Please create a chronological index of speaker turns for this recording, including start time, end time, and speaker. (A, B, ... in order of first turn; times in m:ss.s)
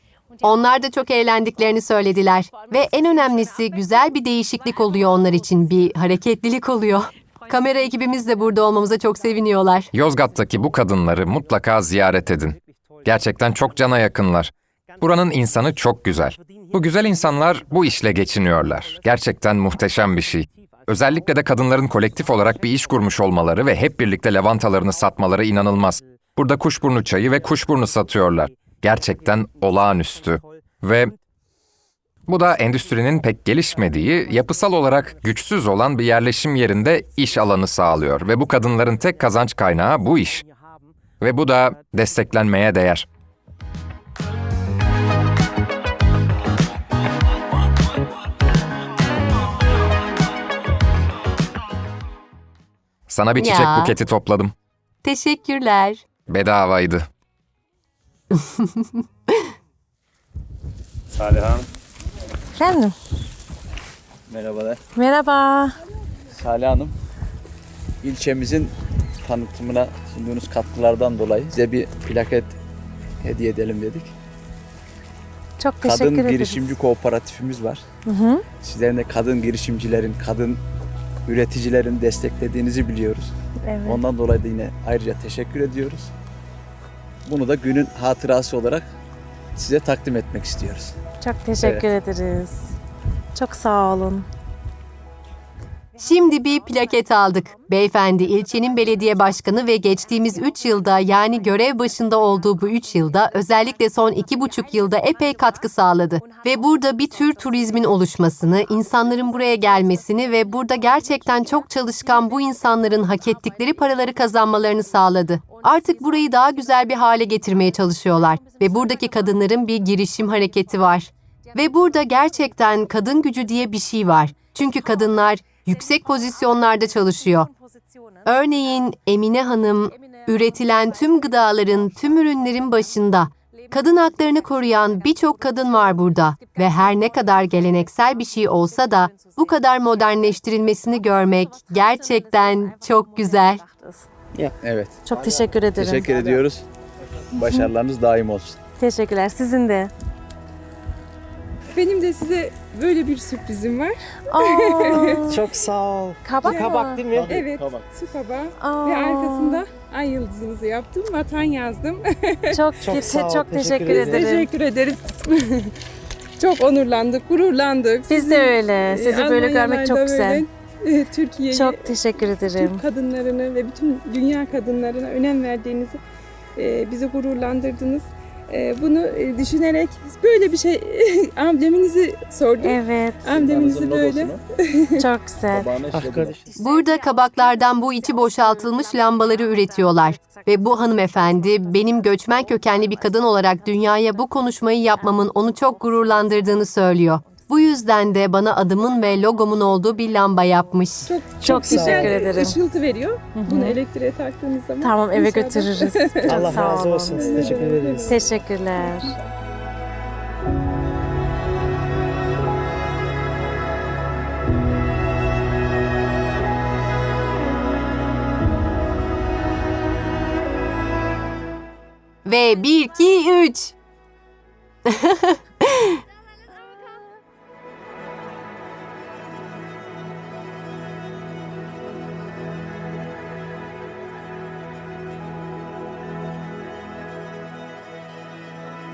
0:00.4-0:09.9 A
0:09.9-0:31.1 B
0:32.2-0:40.4 B
0:41.2-0:43.1 B
0:53.1-0:54.5 B
0:53.4-0:54.0 A
0:55.0-0:56.0 A
0:56.3-0:57.1 B
0:58.3-0:59.4 A
1:01.1-1:01.6 C
1:02.6-1:02.9 D
1:04.3-1:04.8 C
1:04.9-1:05.8 D
1:06.3-1:06.9 C
1:08.0-1:08.7 C
1:09.2-1:12.6 C
1:13.2-1:14.1 C
1:15.6-1:16.7 D
1:15.8-1:17.8 C
1:18.0-1:18.4 D
1:18.6-1:20.6 C
1:21.2-1:23.3 C
1:23.6-1:24.0 D
1:23.8-1:26.1 C
1:27.2-1:28.9 C
1:29.5-1:30.9 C
1:31.2-1:32.7 D
1:31.6-1:31.9 C
1:33.3-1:34.2 D
1:36.0-2:07.5 A
2:08.2-2:23.6 A
2:24.6-2:25.0 C
2:25.0-2:26.4 D
2:25.7-2:26.6 C
2:27.3-2:28.6 C
2:28.8-2:29.9 D
2:31.7-2:35.4 E
2:34.3-2:35.4 D
2:35.2-2:37.4 F
2:36.2-2:37.0 D
2:36.4-2:42.6 E
2:37.1-2:37.9 C
2:38.6-2:39.6 D
2:42.5-2:44.5 D
2:42.8-2:44.3 F
2:43.8-2:45.7 E
2:46.4-2:52.0 E
2:48.1-2:50.4 D
2:51.5-2:52.8 D
2:52.5-2:56.0 E
2:56.6-3:05.0 E
3:02.6-3:03.2 D
3:03.3-3:04.4 C
3:05.0-3:05.7 D
3:05.5-3:06.5 C
3:05.9-3:06.5 F
3:06.6-3:21.1 A
3:21.0-3:29.2 E
3:21.4-3:22.3 F
3:21.4-3:22.6 D
3:23.3-3:23.8 D
3:24.8-3:29.2 D
3:26.2-3:28.2 F
3:42.2-3:43.7 A
3:44.8-3:46.0 A